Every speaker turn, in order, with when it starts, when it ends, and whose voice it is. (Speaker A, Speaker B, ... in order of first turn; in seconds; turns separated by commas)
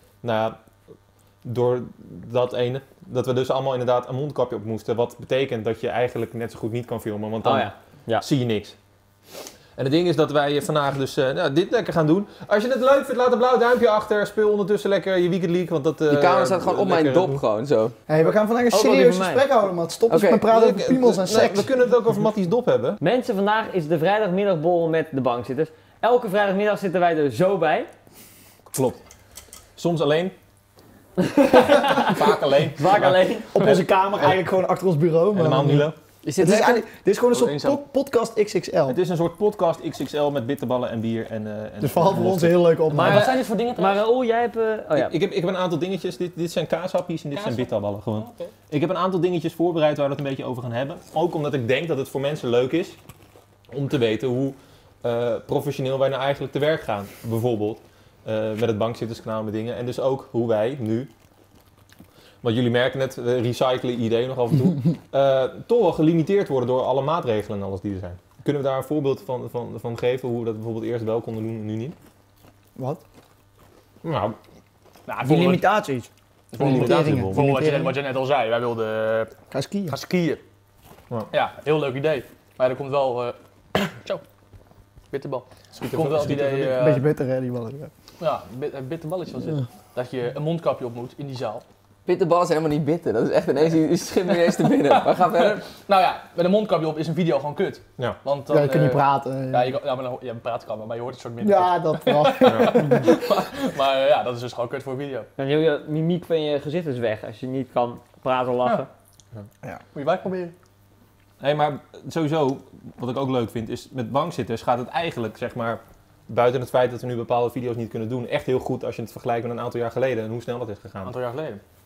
Speaker A: 0.2-0.6, Speaker A: 1.4-8.8, Speaker B: 7.4-8.2, Speaker A: 9.8-17.4, Speaker C: 16.1-17.9, Speaker D: 18.1-21.7, Speaker B: 18.7-19.4, Speaker C: 20.1-20.5, Speaker A: 20.5-23.0, Speaker B: 23.0-27.9, Speaker A: 28.7-29.0, Speaker A: 29.8-30.3, Speaker B: 31.2-33.6, Speaker A: 31.7-33.3, Speaker D: 33.5-39.0, Speaker A: 35.3-36.0, Speaker C: 36.2-36.8, Speaker E: 37.3-37.8, Speaker A: 38.9-42.8, Speaker D: 41.8-43.4, Speaker B: 42.9-45.2, Speaker E: 42.9-44.0, Speaker A: 44.9-53.0, Speaker E: 47.3-48.5, Speaker A: 53.7-61.1, Speaker A: 62.4-72.0, Speaker D: 72.8-73.0, Speaker A: 74.0-74.4, Speaker E: 75.1-75.6, Speaker D: 75.2-78.0, Speaker E: 76.5-79.3, Speaker A: 76.6-77.5, Speaker D: 79.5-80.0, Speaker E: 79.9-80.4, Speaker E: 81.3-84.2, Speaker E: 85.1-87.0, Speaker A: 85.7-86.8, Speaker D: 86.6-87.9, Speaker E: 88.2-91.6, Speaker C: 92.0-95.6, Speaker E: 94.7-105.3, Speaker D: 98.5-99.7, Speaker D: 101.4-103.1, Speaker A: 102.4-103.0, Speaker B: 105.4-108.9, Speaker E: 109.9-110.5, Speaker A: 111.4-121.2, Speaker E: 121.0-121.6